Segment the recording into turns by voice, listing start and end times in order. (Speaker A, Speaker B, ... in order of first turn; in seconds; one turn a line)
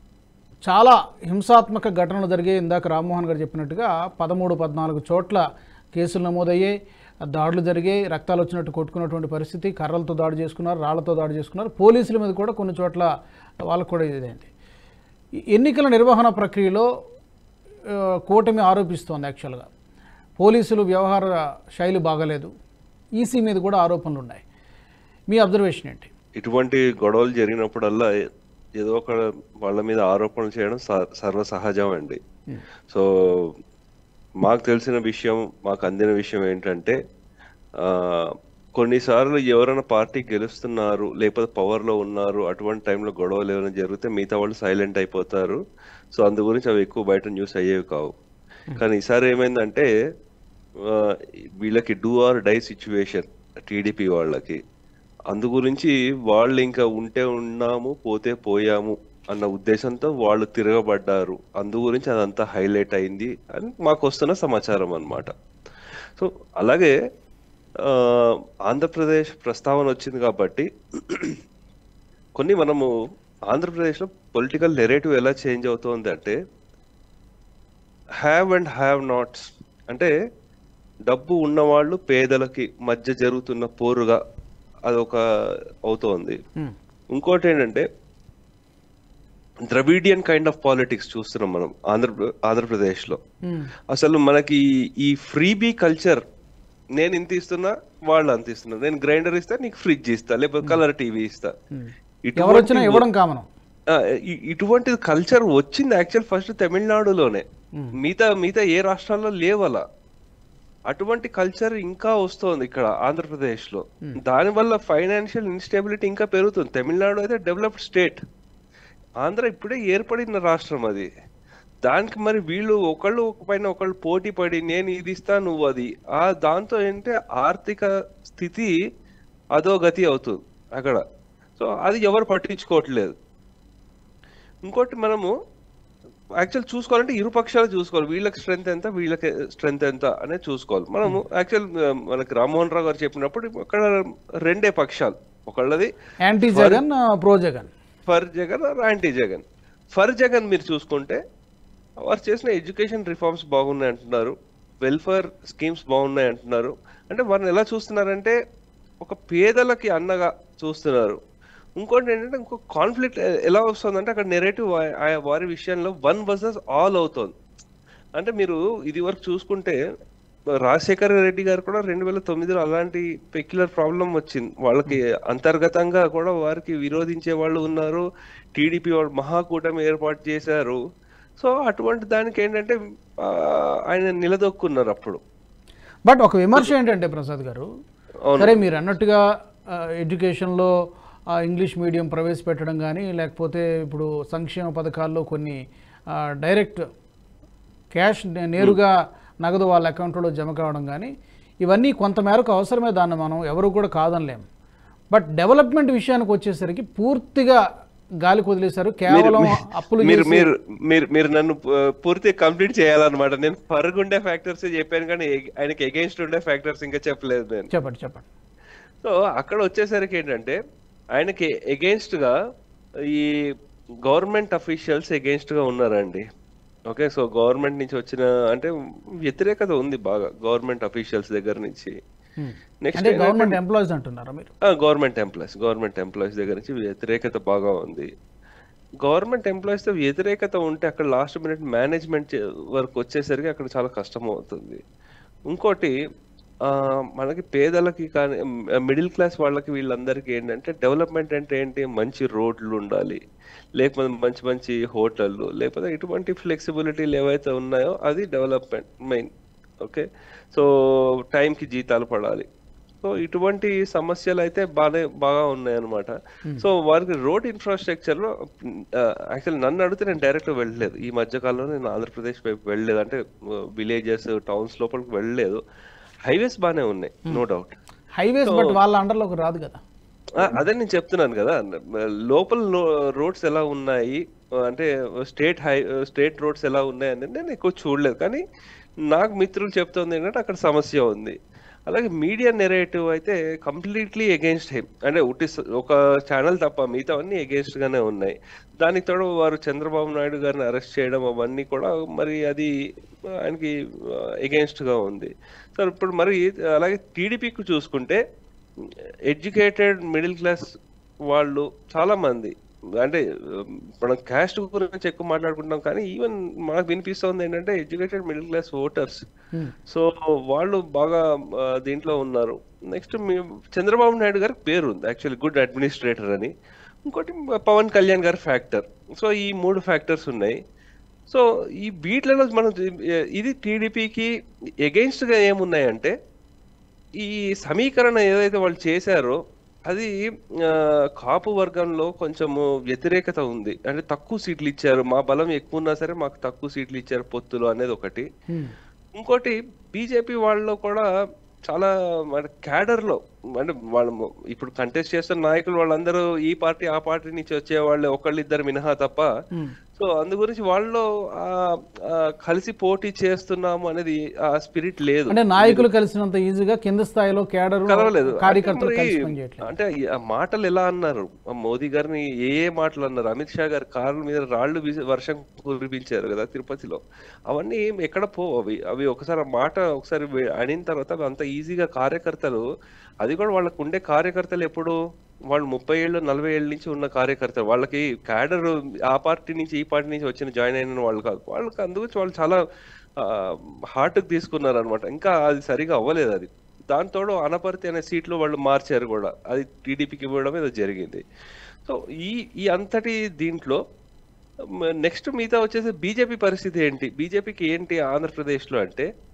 Speaker A: 0.6-5.4
Speaker A: 5.9-6.7
Speaker A: 7.3-13.1
Speaker A: 13.7-14.5
Speaker A: 15.5-16.9
Speaker A: 18.3-19.7
Speaker A: 20.4-22.5
Speaker A: 23.2-24.4
Speaker A: 25.3-26.1
Speaker B: 26.4-28.1
Speaker B: 28.8-32.2
Speaker B: 32.9-33.5
Speaker B: 34.4-37.0
Speaker B: 37.8-45.6
Speaker B: 46.1-48.1
Speaker B: 48.8-49.9
Speaker B: 50.9-54.6
Speaker B: 55.3-65.3
Speaker B: 66.2-66.9
Speaker B: 67.8-71.4
Speaker B: 72.4-72.9
Speaker B: 73.5-76.3
Speaker B: 78.2-80.1
Speaker B: 81.1-84.2
Speaker B: 84.9-85.2
Speaker B: 85.9-86.4
Speaker B: 87.1-87.8
Speaker B: 89.7-93.2
Speaker B: 93.9-96.2
Speaker B: 97.0-101.5
Speaker A: 101.7-103.5
Speaker B: 102.3-103.0
Speaker B: 103.9-107.4
Speaker B: 108.0-109.8
Speaker B: 110.9-118.2
Speaker B: 119.2-121.1
Speaker B: 121.8-128.7
Speaker B: 129.6-131.0
Speaker B: 131.6-133.1
Speaker B: 134.7-135.3
Speaker B: 136.4-145.9
Speaker A: 146.2-147.7
Speaker B: 146.5-146.8
Speaker B: 148.1-149.4
Speaker B: 149.9-151.2
Speaker B: 152.1-158.3
Speaker B: 159.0-161.2
Speaker B: 161.8-167.3
Speaker B: 168.2-169.8
Speaker B: 170.6-178.0
Speaker B: 178.6-180.8
Speaker B: 181.4-185.2
Speaker A: 186.1-187.7
Speaker B: 188.3-188.6
Speaker A: 188.4-189.2
Speaker A: 189.7-190.7
Speaker A: 191.4-195.6
Speaker A: 196.4-196.8
Speaker A: 197.9-201.1
Speaker A: 201.6-204.4
Speaker A: 205.1-207.6
Speaker A: 208.2-210.5
Speaker B: 209.1-217.7
Speaker A: 217.7-218.3
Speaker B: 219.0-220.6
Speaker B: 221.2-222.3
Speaker B: 224.1-226.2
Speaker B: 226.9-228.7
Speaker B: 229.2-231.9
Speaker A: 232.4-234.5
Speaker B: 232.8-233.6
Speaker B: 234.6-238.1
Speaker B: 239.0-244.8
Speaker B: 245.5-245.9
Speaker B: 246.7-253.2
Speaker B: 253.8-259.3
Speaker B: 259.8-262.4
Speaker B: 263.0-268.3
Speaker B: 269.0-273.2
Speaker B: 273.8-275.6
Speaker B: 276.2-277.8
Speaker A: 278.2-279.8
Speaker B: 278.4-278.8
Speaker B: 280.4-281.8
Speaker B: 282.3-288.4
Speaker B: 289.1-291.3
Speaker B: 291.9-302.7
Speaker B: 303.4-303.7
Speaker B: 304.4-308.2
Speaker B: 309.3-310.6
Speaker B: 311.3-319.2
Speaker B: 319.9-326.5
Speaker B: 327.1-330.5
Speaker B: 331.3-332.8
Speaker B: 333.3-334.3
Speaker B: 334.8-336.1
Speaker B: 337.2-339.4
Speaker B: 339.9-348.2
Speaker B: 349.1-351.1
Speaker B: 351.7-359.3
Speaker B: 359.9-365.9
Speaker A: 365.3-369.7
Speaker B: 367.9-382.6
Speaker B: 383.2-384.9
Speaker B: 385.5-392.6
Speaker B: 393.2-401.2
Speaker B: 401.8-403.8
Speaker B: 404.8-409.1